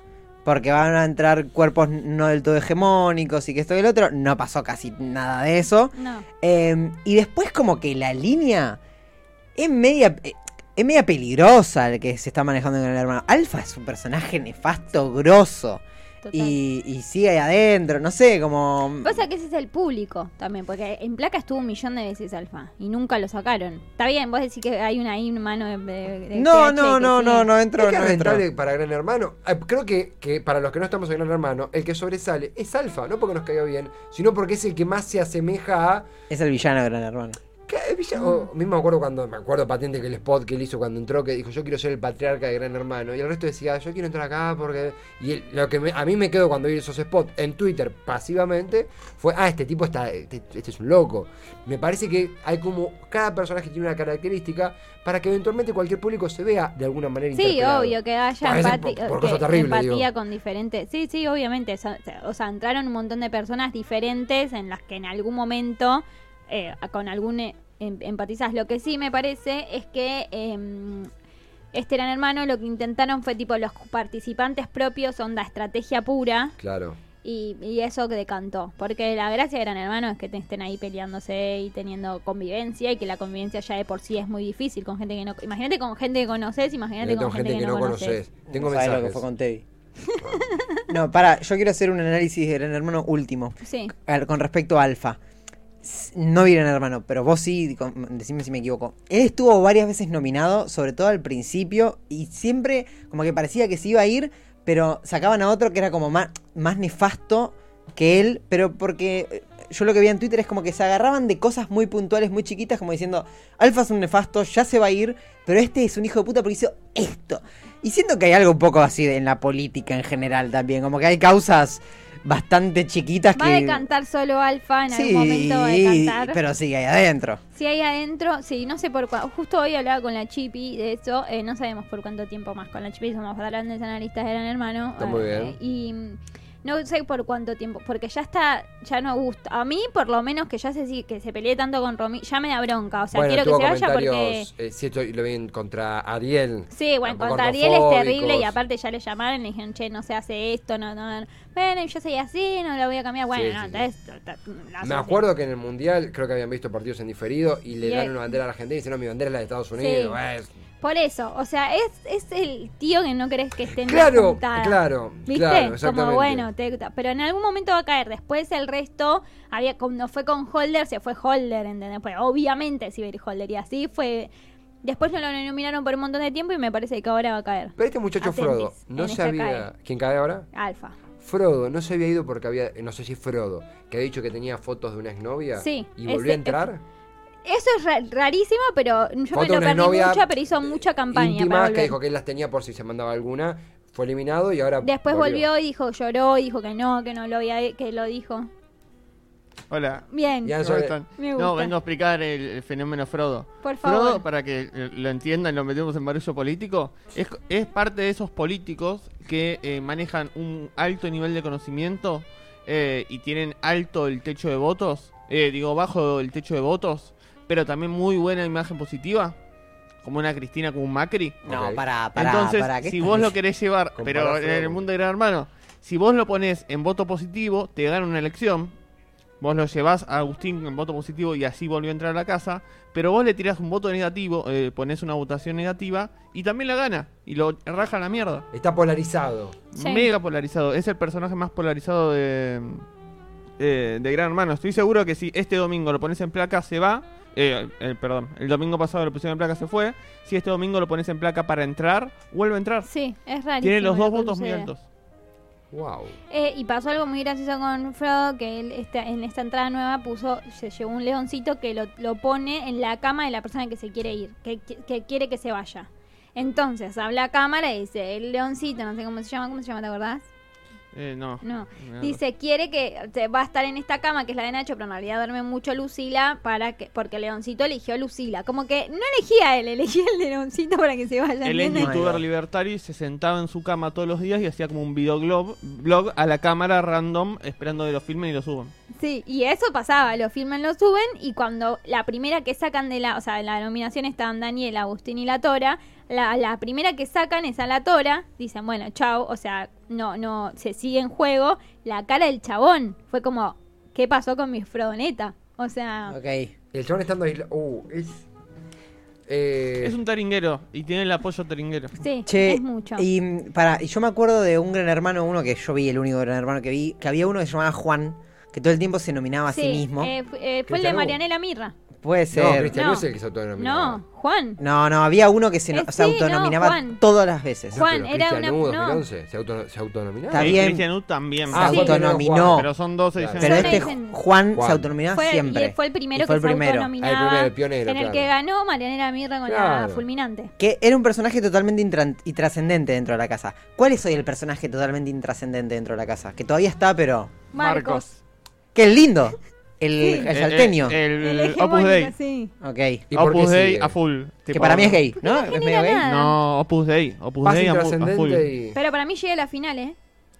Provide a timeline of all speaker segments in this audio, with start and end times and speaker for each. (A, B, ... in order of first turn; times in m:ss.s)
0:00.4-0:08.8 A
0:05.9-0:06.2 B
0:09.6-0:19.2 A
0:16.2-0:16.6 B
0:19.0-0:27.5 B
0:26.3-0:28.4 A
0:27.8-0:36.1 C
0:36.3-0:37.4 A
0:37.7-1:00.1 C
0:38.2-0:38.5 B
0:57.3-1:11.1 B
1:11.7-1:16.5 B
1:16.6-1:17.0 C
1:17.2-1:28.2 B
1:27.0-1:29.2 C
1:28.5-1:29.6 A
1:30.1-1:30.6 B
1:30.9-1:35.2 A
1:33.6-1:33.9 B
1:35.8-2:03.8 A
2:03.3-2:06.4 B
2:04.9-2:07.4 A
2:07.6-2:24.5 B
2:15.0-2:15.6 C
2:23.1-2:28.5 C
2:26.7-2:35.2 B
2:33.3-2:33.8 C
2:34.8-2:40.5 C
2:37.8-2:38.4 B
2:39.8-2:40.2 B
2:40.8-2:54.3 B
2:43.7-2:46.5 C
2:54.8-2:59.7 B
2:57.8-3:00.5 C
3:00.5-3:00.9 B
3:01.2-3:06.8 C
3:05.6-3:06.6 B
3:07.4-3:12.0 B
3:09.3-3:15.5 C
3:14.8-3:18.5 B
3:19.7-3:20.0 D
3:20.1-3:20.6 B
3:20.4-3:20.9 C
3:20.6-3:39.3 D
3:21.2-3:21.7 B
3:23.6-3:24.2 B
3:40.0-3:41.4 D
3:41.4-3:43.3 A
3:41.4-3:41.8 C
3:42.2-3:48.7 D
3:43.9-3:44.8 C
3:49.4-3:58.4 D
3:58.5-3:59.6 C
3:59.7-4:02.8 D
3:59.8-4:00.1 B
4:03.6-4:12.9 D
4:12.8-4:14.7 B
4:13.6-4:14.8 D
4:15.7-4:16.2 C
4:16.3-4:30.2 B
4:30.9-4:32.2 D
4:31.4-4:41.9 B
4:41.4-4:48.7 D
4:41.7-4:42.2 A
4:49.0-5:06.2 B
5:06.1-5:06.5 A
5:06.7-5:08.2 C
5:09.3-5:09.9 C
5:09.8-5:11.9 D
5:12.0-5:13.0 B
5:12.2-5:20.1 A
5:19.5-5:21.7 B
5:20.7-5:21.2 C
5:22.0-5:22.7 A
5:22.3-5:24.0 C
5:22.7-5:24.6 B
5:24.6-5:27.8 A
5:25.7-5:27.0 B
5:27.7-5:29.0 B
5:27.7-5:30.6 C
5:30.3-5:30.9 A
5:30.3-5:33.8 D
5:31.5-5:33.4 C
5:31.5-5:32.7 A
5:31.6-5:32.0 B
5:33.4-5:36.9 A
5:33.4-5:34.2 B
5:34.5-5:34.9 C
5:35.1-5:40.5 B
5:37.0-5:38.3 C
5:39.5-5:40.0 C
5:40.6-5:47.4 A
5:47.5-5:48.1 B
5:47.5-5:48.2 D
5:48.7-5:51.0 A
5:50.0-5:50.3 B
5:50.2-5:52.1 D
5:51.2-5:52.5 B
5:52.6-5:53.1 A
5:53.1-5:53.9 C
5:53.1-5:55.0 D
5:54.5-5:56.0 A
5:55.2-5:56.4 B
5:56.0-5:58.4 D
5:57.4-5:58.8 C
5:58.7-6:00.0 B